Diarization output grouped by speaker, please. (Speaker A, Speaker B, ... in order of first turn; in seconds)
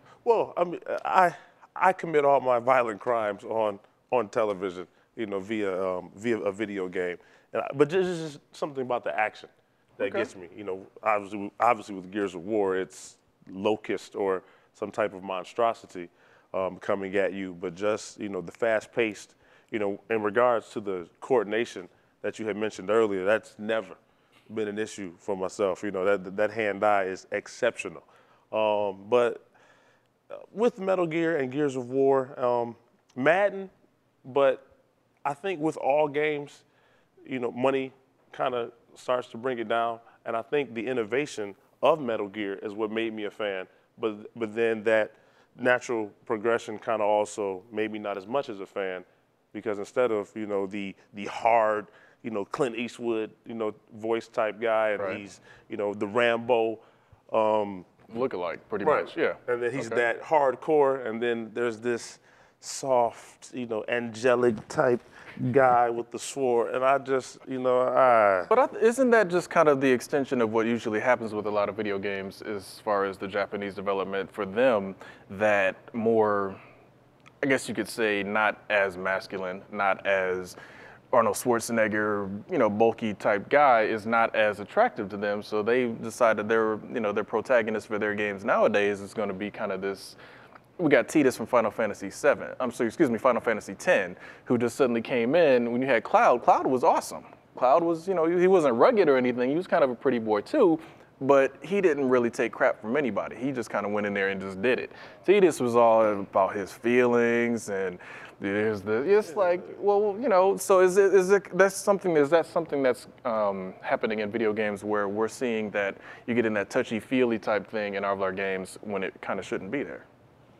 Speaker A: 0.2-24.0, 24.5-29.4, 30.3-33.7, 34.2-34.6, 35.2-36.6, 37.2-57.9, 58.8-68.5
Speaker B: 10.0-10.3, 58.1-60.0, 68.5-76.6, 77.4-80.5, 81.1-90.2, 90.8-120.0